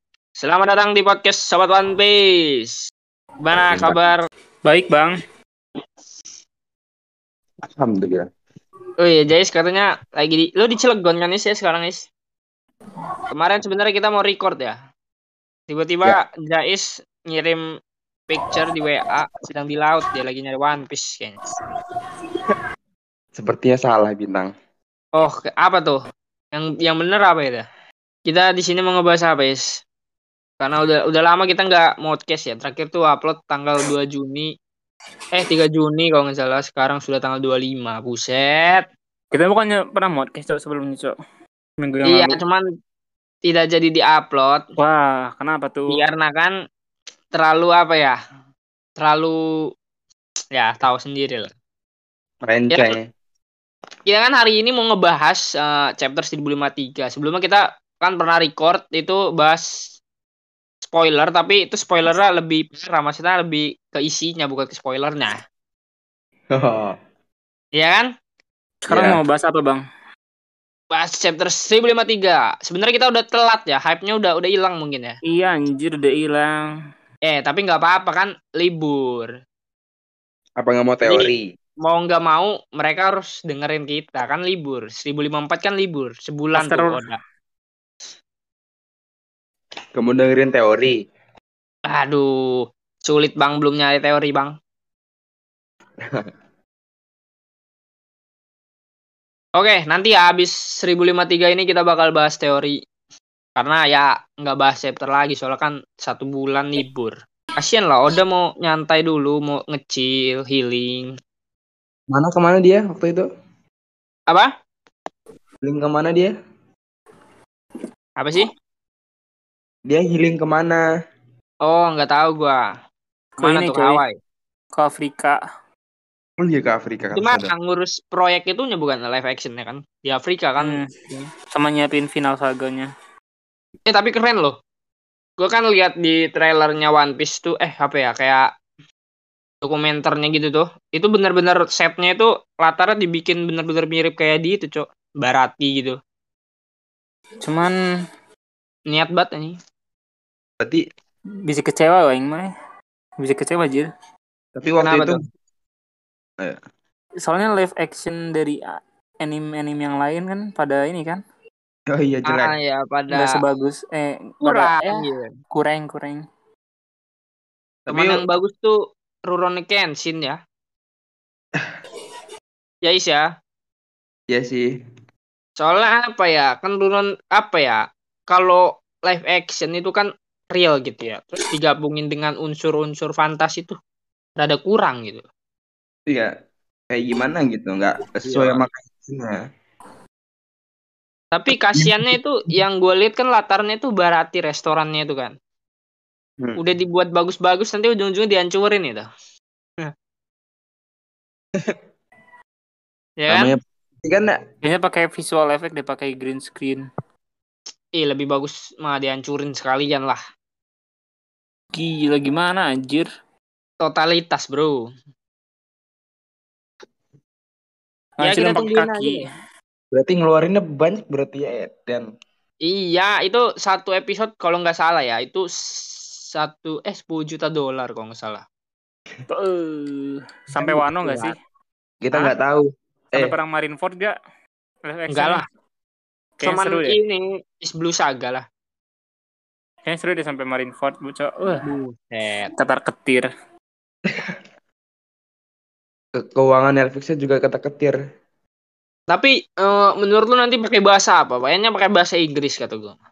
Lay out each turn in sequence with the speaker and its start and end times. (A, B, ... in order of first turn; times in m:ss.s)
0:00.4-0:02.8 A
0:03.4-0:04.2 A
0:03.6-0:04.0 B
0:04.6-0:05.2 C
0:07.8-0:08.3 B
0:09.0-0:12.1 A
0:13.3-0:14.8 A
0:15.7-0:17.6 A
0:18.3-0:21.4 A
0:23.4-0:24.5 B
0:25.2-0:26.0 A
0:26.5-0:27.6 A
0:28.3-0:29.8 A
0:30.6-0:34.5 A
0:35.3-0:38.9 A
0:39.3-0:41.1 C
0:41.8-0:42.4 C
0:42.1-0:42.6 A
0:43.5-0:44.6 A
0:44.8-0:46.0 C
0:45.9-0:46.6 A
0:47.3-0:48.2 A
0:49.0-0:49.4 A
0:50.5-0:51.5 A
0:52.4-0:53.1 B
0:52.7-0:53.0 A
0:54.1-0:59.7 A
1:00.9-1:05.4 A
1:06.5-1:07.0 B
1:07.8-1:08.1 A
1:08.8-1:09.8 C
1:08.9-1:09.2 B
1:10.9-1:15.2 A
1:15.2-1:16.7 C
1:17.3-1:19.3 A
1:20.6-1:21.4 B
1:21.0-1:21.3 A
1:21.8-1:27.2 A
1:26.6-1:27.0 C
1:30.0-1:31.0 B
1:31.9-1:32.3 A
1:33.0-1:34.5 A
1:39.6-1:42.8 A
1:43.6-1:51.1 A
1:52.1-1:53.3 B
1:55.6-1:56.3 B
1:58.2-1:58.5 A
1:59.9-2:00.8 B
2:01.6-2:02.6 A
2:03.4-2:04.0 C
2:03.4-2:04.2 A
2:04.7-2:05.4 C
2:06.4-2:07.5 B
2:07.2-2:11.3 A
2:10.6-2:10.9 C
2:11.5-2:12.9 C
2:13.9-2:14.6 A
2:15.4-2:18.4 A
2:19.6-2:26.0 A
2:27.4-2:27.7 C
2:28.9-2:29.6 A
2:31.4-2:32.5 C
2:33.2-2:33.9 C
2:34.6-2:35.2 B
2:34.8-2:35.2 A
2:37.2-2:41.2 C
2:41.9-2:42.6 B
2:42.3-2:43.4 A
2:43.1-2:46.2 C
2:44.4-2:45.3 A
2:47.9-2:48.2 B
2:47.9-2:48.8 A
2:49.3-2:50.4 A
2:52.8-2:53.2 A
2:54.3-2:54.7 B
2:55.6-3:03.8 A
3:04.4-3:05.2 A
3:06.9-3:09.4 B
3:08.3-3:08.6 A
3:11.3-3:15.3 A
3:11.8-3:12.0 B
3:16.6-3:19.1 A
3:23.2-3:23.5 A
3:23.3-3:24.4 B
3:24.6-3:26.8 C
3:28.0-3:30.2 A
3:31.7-3:33.1 C
3:33.8-3:34.8 A
3:38.2-3:39.2 C
3:38.2-3:39.2 A
3:39.9-3:42.1 B
3:42.6-3:48.4 A
3:49.3-3:51.4 C
3:50.6-3:51.3 B
3:52.0-3:53.3 B
3:53.1-3:54.2 C
3:54.9-3:55.4 C
3:55.1-3:55.4 A
3:56.4-3:57.0 C
3:56.4-3:58.4 A
3:59.9-4:01.6 C
4:01.6-4:02.5 A
4:02.6-4:03.3 C
4:06.2-4:08.0 B
4:09.1-4:13.0 A